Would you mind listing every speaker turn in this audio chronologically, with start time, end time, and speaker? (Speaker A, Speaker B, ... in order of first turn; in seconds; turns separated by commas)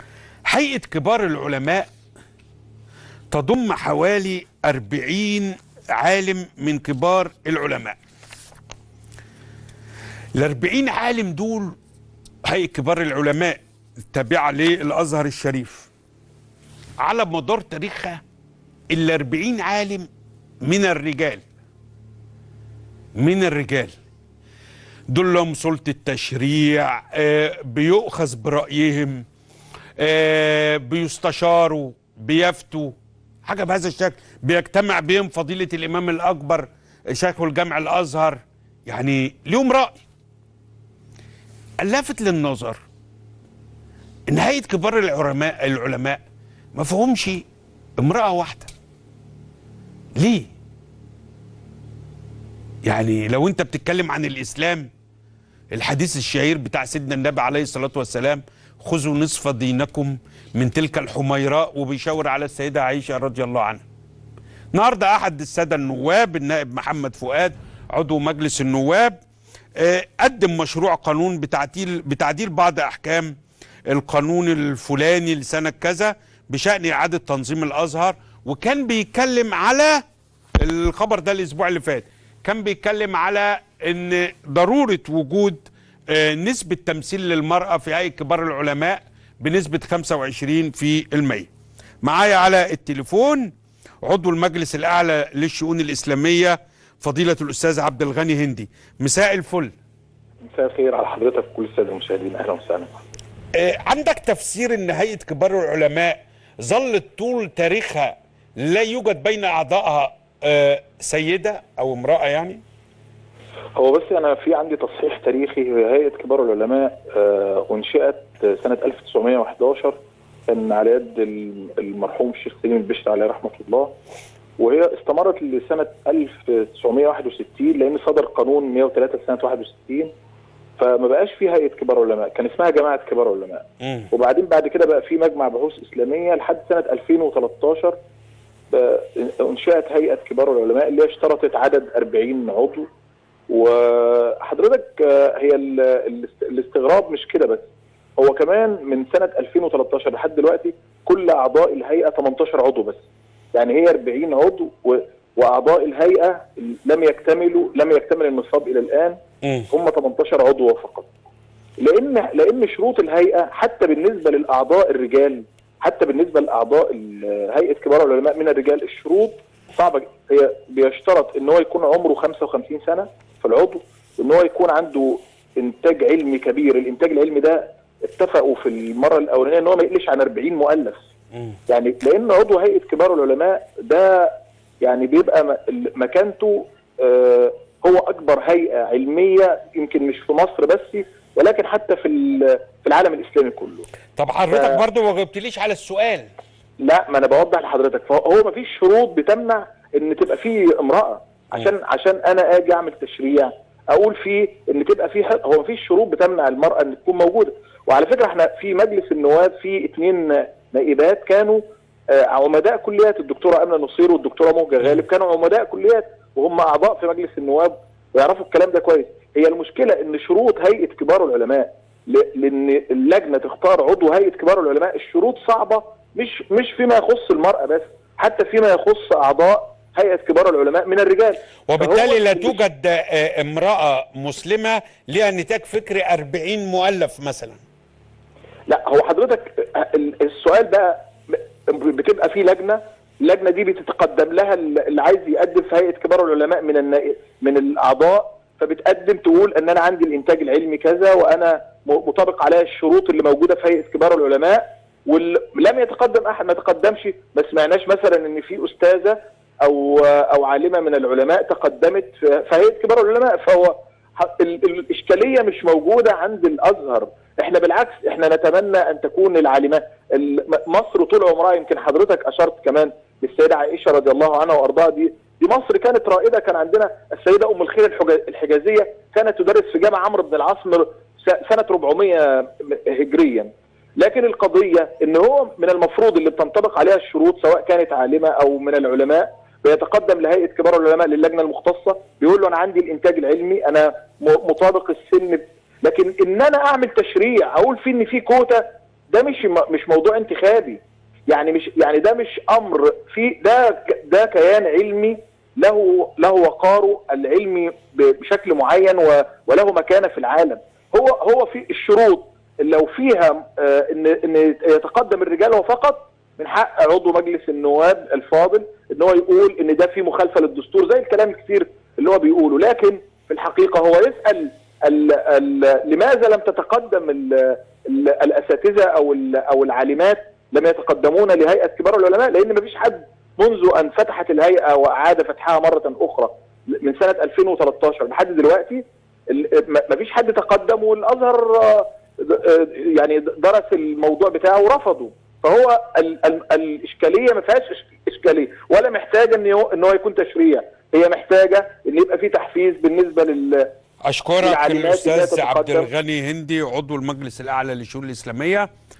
Speaker A: 0.5-1.9, Speaker A: 3.3-8.0, Speaker A: 10.3-11.7, Speaker A: 12.4-15.9, Speaker A: 17.0-18.2, Speaker A: 18.9-20.1, Speaker A: 20.6-21.4, Speaker A: 23.1-23.9, Speaker A: 25.1-29.2, Speaker A: 30.0-40.0, Speaker A: 41.8-42.8, Speaker A: 44.3-46.2, Speaker A: 46.7-47.4, Speaker A: 48.0-48.7, Speaker A: 50.1-50.5, Speaker A: 52.8-54.9, Speaker A: 55.7-63.8, Speaker A: 64.7-69.2, Speaker A: 69.8-73.3, Speaker A: 73.9-80.0, Speaker A: 80.6-91.5, Speaker A: 92.0-93.5, Speaker A: 94.0-99.7, Speaker B: 100.5-103.0, Speaker A: 103.5-112.6, Speaker B: 113.8-123.9, Speaker B: 124.6-130.1, Speaker B: 130.8-138.0, Speaker A: 133.8-134.1, Speaker B: 138.7-142.9, Speaker B: 143.5-147.7, Speaker B: 148.2-159.2, Speaker A: 159.4-159.7, Speaker B: 159.7-161.1, Speaker B: 161.8-181.1, Speaker B: 181.7-193.9, Speaker A: 194.2-196.3, Speaker B: 194.5-194.8, Speaker B: 196.8-232.6, Speaker A: 231.7-237.6, Speaker B: 238.7-353.7, Speaker A: 354.0-358.7, Speaker B: 354.4-355.9